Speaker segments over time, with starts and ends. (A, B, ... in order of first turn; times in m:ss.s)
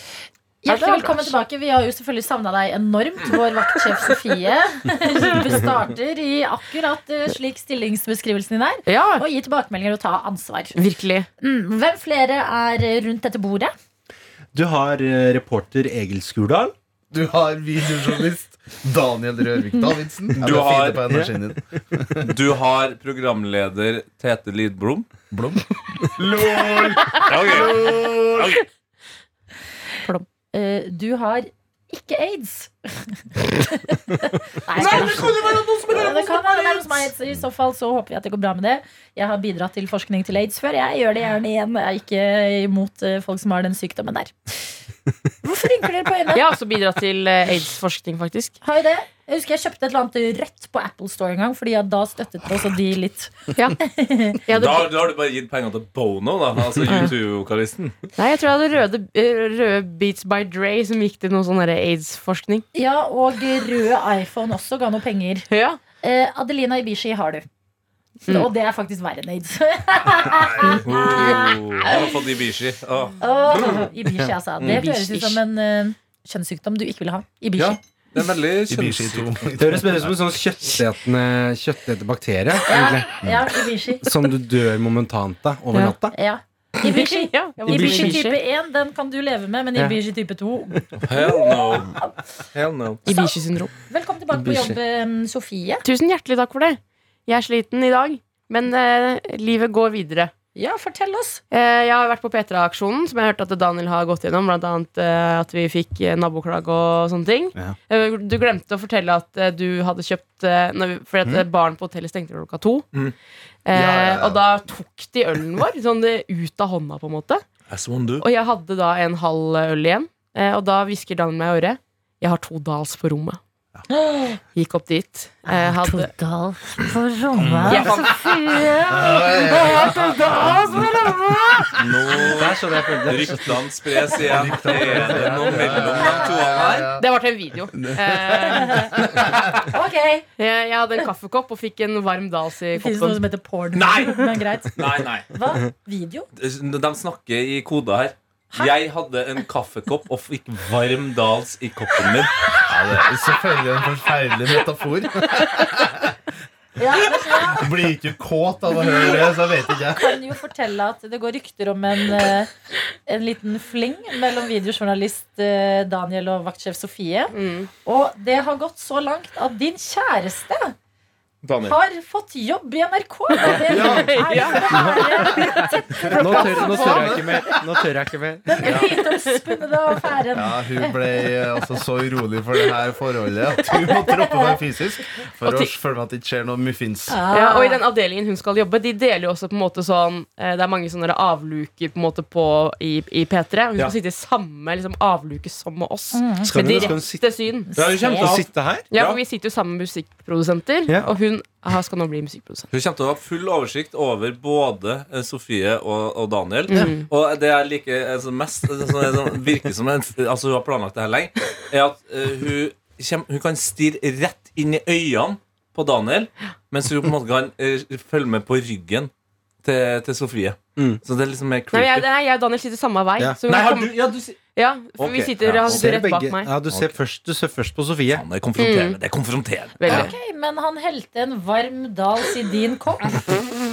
0:00.6-0:10.8 A
0:00.7-0:01.4 B
0:08.8-0:09.2 B
0:10.7-0:11.3 B
0:11.4-0:13.7 A
0:14.5-0:16.7 C
0:17.1-0:22.3 D
0:20.4-0:21.0 E
0:22.2-0:25.1 E
0:25.3-0:28.6 D
0:27.1-0:28.6 E
0:30.0-0:44.7 A
0:34.8-0:36.0 B
0:34.8-0:36.8 E
0:45.4-0:46.5 A
0:46.3-0:48.6 B
0:48.6-0:54.4 A
0:54.5-0:54.9 B
0:54.5-0:58.0 E
0:56.9-0:57.1 B
0:58.2-1:02.6 B
1:02.7-1:05.5 A
1:05.5-1:05.8 B
1:06.0-1:07.4 A
1:08.3-1:12.0 A
1:10.6-1:13.9 E
1:13.2-1:17.8 A
1:14.6-1:15.4 B
1:17.6-1:19.4 E
1:18.7-1:20.2 D
1:19.6-1:23.3 C
1:22.7-1:24.1 A
1:24.0-1:26.2 C
1:26.1-1:32.1 A
1:26.8-1:28.4 B
1:27.7-1:28.2 C
1:31.0-1:32.0 E
1:32.5-1:33.0 E
1:33.0-1:33.7 B
1:33.1-1:35.8 A
1:34.3-1:34.8 C
1:35.8-1:40.3 B
1:40.5-1:41.4 A
1:41.5-1:52.8 B
1:53.6-1:57.4 B
1:53.7-1:54.5 D
1:57.7-1:58.2 E
1:58.2-2:03.4 B
2:03.9-2:04.4 A
2:04.5-2:06.1 B
2:05.5-2:10.8 A
2:07.4-2:08.0 E
2:07.6-2:08.7 B
2:08.9-2:10.8 D
2:09.9-2:16.9 E
2:11.8-2:12.2 D
2:12.1-2:13.6 C
2:14.1-2:17.1 D
2:15.1-2:15.5 C
2:15.8-2:16.4 A
2:17.0-2:18.9 B
2:17.7-2:19.5 D
2:18.6-2:18.9 A
2:19.7-2:20.3 A
2:20.4-2:23.2 B
2:22.7-2:26.3 A
2:23.7-2:25.3 E
2:26.4-2:32.4 E
2:28.5-2:28.8 A
2:32.7-2:36.2 D
2:36.8-2:37.8 A
2:37.0-2:40.2 D
2:38.8-2:39.4 A
2:40.0-2:42.5 A
2:43.1-2:50.7 A
2:47.3-2:47.7 B
2:51.4-2:51.8 E
2:51.6-2:57.6 A
2:53.4-2:54.1 C
2:53.4-2:57.2 B
2:54.7-2:58.8 C
2:56.2-2:57.4 D
2:58.5-3:01.0 A
3:00.3-3:07.2 D
3:05.4-3:05.7 B
3:07.1-3:07.8 A
3:07.3-3:17.7 B
3:16.1-3:17.0 A
3:16.4-3:17.2 C
3:17.7-3:18.4 A
3:17.7-3:19.2 E
3:18.2-3:19.2 C
3:18.9-3:22.7 B
3:20.9-3:21.1 C
3:22.7-3:39.1 E
3:26.7-3:27.1 B
3:39.6-3:42.1 E
3:41.7-3:46.5 B
3:43.5-3:44.4 E
3:45.0-3:45.9 E
3:45.7-3:48.2 C
3:48.1-3:50.1 E
3:48.6-3:49.0 B
3:49.8-3:50.1 B
3:49.9-3:53.3 A